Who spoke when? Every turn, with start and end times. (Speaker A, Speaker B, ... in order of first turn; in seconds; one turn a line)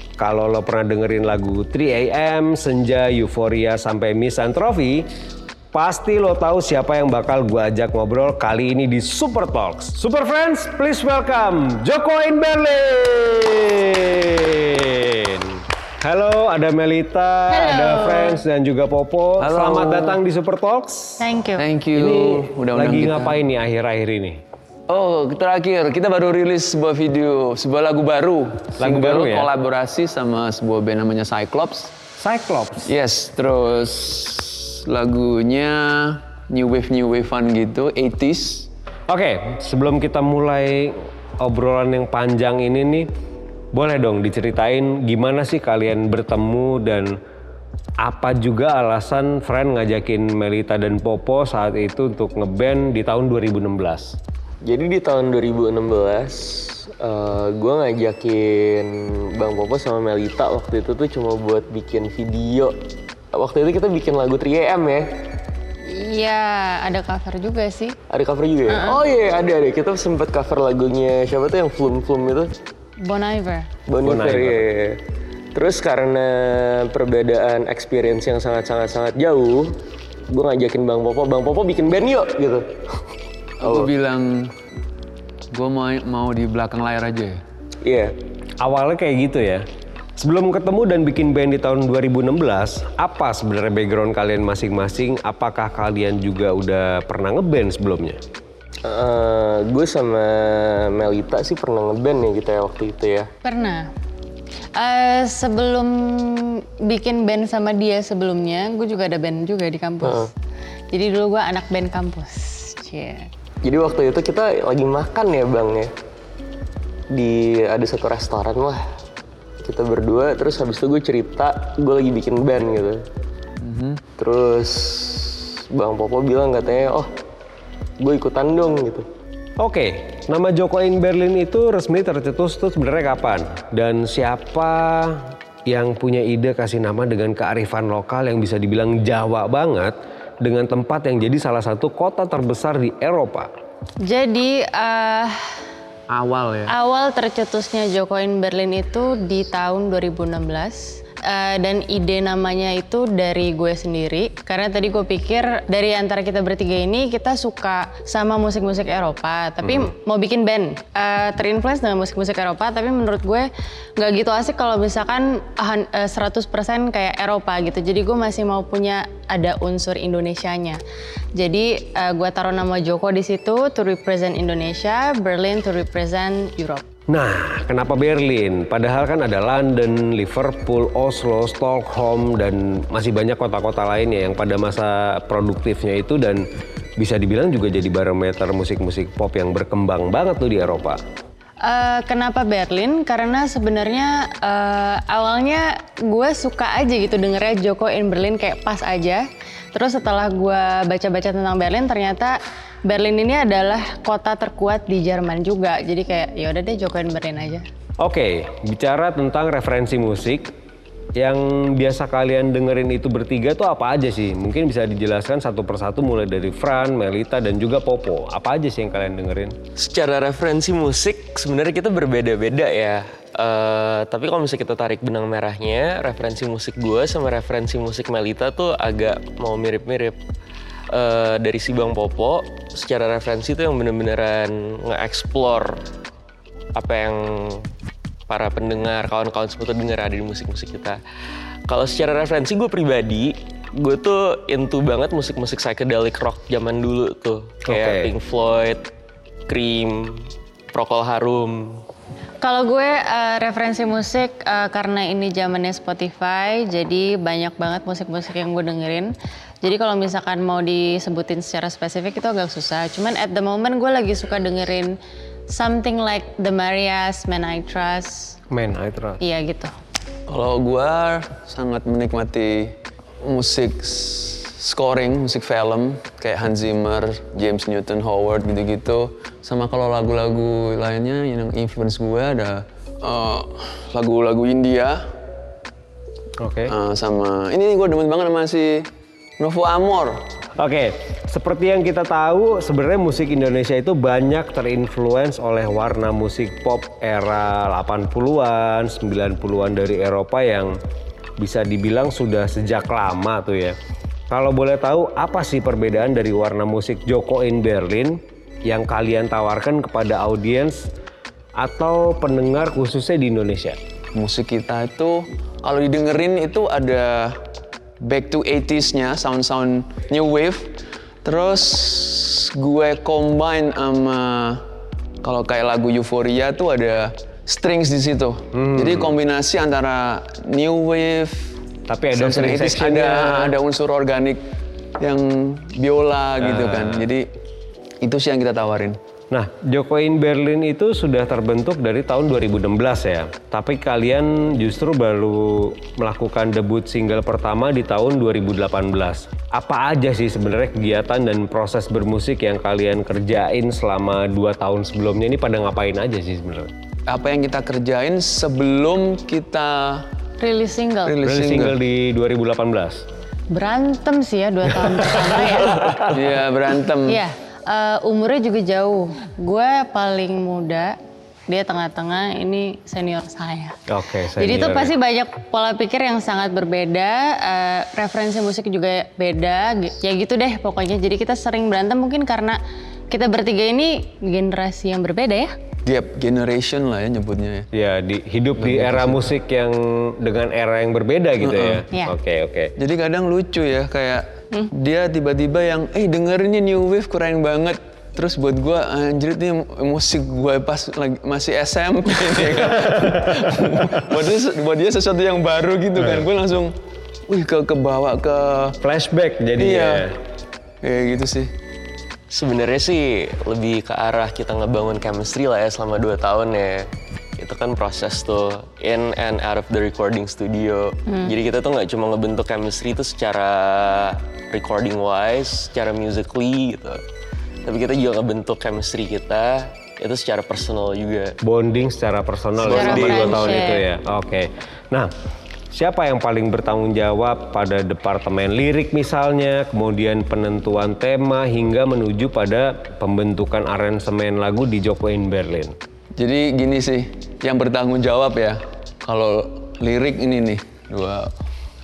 Speaker A: 0.2-5.1
Speaker A: 5.7-21.2
Speaker B: 17.5-18.4
Speaker C: 19.4-20.2
Speaker B: 21.2-21.6
Speaker C: 21.6-23.4
Speaker A: 21.9-24.4
Speaker C: 24.9-31.9
Speaker A: 28.8-29.5
Speaker A: 32.2-32.9
Speaker C: 32.9-38.7
Speaker A: 39.1-43.1
Speaker A: 43.7-47.1
Speaker A: 48.0-54.2
Speaker D: 54.6-62.7
Speaker D: 63.3-65.1
Speaker B: 65.8-68.0
Speaker D: 68.1-72.5
Speaker B: 68.7-69.0
Speaker B: 73.0-73.7
Speaker D: 73.9-75.0
Speaker A: 74.0-74.7
Speaker D: 75.5-79.8
Speaker D: 80.3-83.0
Speaker C: 83.6-84.5
Speaker D: 83.6-83.9
Speaker C: 85.5-87.4
Speaker D: 87.8-88.1
Speaker A: 88.6-89.6
Speaker A: 90.2-98.2
Speaker D: 98.8-103.3
Speaker B: 103.4-103.9
Speaker B: 104.8-110.3
Speaker B: 110.9-113.3
Speaker D: 113.6-115.9
Speaker D: 117.1-118.8
Speaker D: 119.6-123.0
Speaker C: 123.6-124.0
Speaker D: 124.2-127.1
Speaker D: 128.0-129.0
Speaker A: 129.6-143.5
Speaker B: 144.0-145.6
Speaker C: 146.1-146.7
Speaker B: 146.7-170.8
Speaker A: 159.6-159.9
Speaker B: 171.3-176.9
Speaker A: 177.1-186.4
Speaker A: 187.0-191.0
Speaker B: 191.6-207.7
Speaker A: 208.0-210.5
Speaker A: 211.2-219.6
Speaker D: 219.8-230.2
Speaker D: 230.9-235.7
Speaker D: 236.8-237.7
Speaker D: 238.3-241.0
Speaker D: 241.7-248.8
Speaker A: 247.7-248.1
Speaker D: 249.5-251.8
Speaker B: 252.4-264.9
Speaker B: 265.5-268.4
Speaker A: 268.5-269.2
Speaker B: 269.2-269.7
Speaker C: 270.3-285.1
Speaker A: 286.4-286.7
Speaker C: 286.7-288.9
Speaker C: 289.4-290.2
Speaker A: 290.6-300.7
Speaker A: 301.4-303.8
Speaker A: 304.3-310.9
Speaker A: 311.6-313.8
Speaker C: 314.1-317.4
Speaker C: 318.0-320.7
Speaker C: 321.2-324.6
Speaker C: 325.2-331.5
Speaker A: 328.5-329.1
Speaker A: 331.9-333.6
Speaker C: 332.1-334.4
Speaker C: 335.0-337.2
Speaker A: 336.4-337.1
Speaker C: 338.0-339.0
Speaker A: 339.3-356.7
Speaker C: 357.1-360.1
Speaker B: 360.4-361.1
Speaker C: 361.0-361.8
Speaker A: 361.2-363.0
Speaker B: 363.5-366.0
Speaker A: 364.9-366.3
Speaker C: 366.1-367.2
Speaker B: 367.1-370.9
Speaker B: 371.5-373.8
Speaker A: 373.9-374.9
Speaker B: 374.4-382.6
Speaker B: 383.1-385.5
Speaker C: 385.8-387.7
Speaker A: 387.7-392.7
Speaker C: 388.6-389.2
Speaker C: 391.4-391.9
Speaker C: 392.8-406.7
Speaker A: 402.4-403.9
Speaker A: 406.0-406.3
Speaker C: 407.3-408.8
Speaker A: 408.8-410.1
Speaker C: 409.6-410.1
Speaker C: 410.8-411.5
Speaker D: 412.3-427.0
Speaker B: 421.1-421.3
Speaker D: 427.6-431.4
Speaker A: 431.4-435.1
Speaker B: 432.6-433.8
Speaker D: 432.8-433.2
Speaker A: 435.7-445.8
Speaker C: 446.2-451.3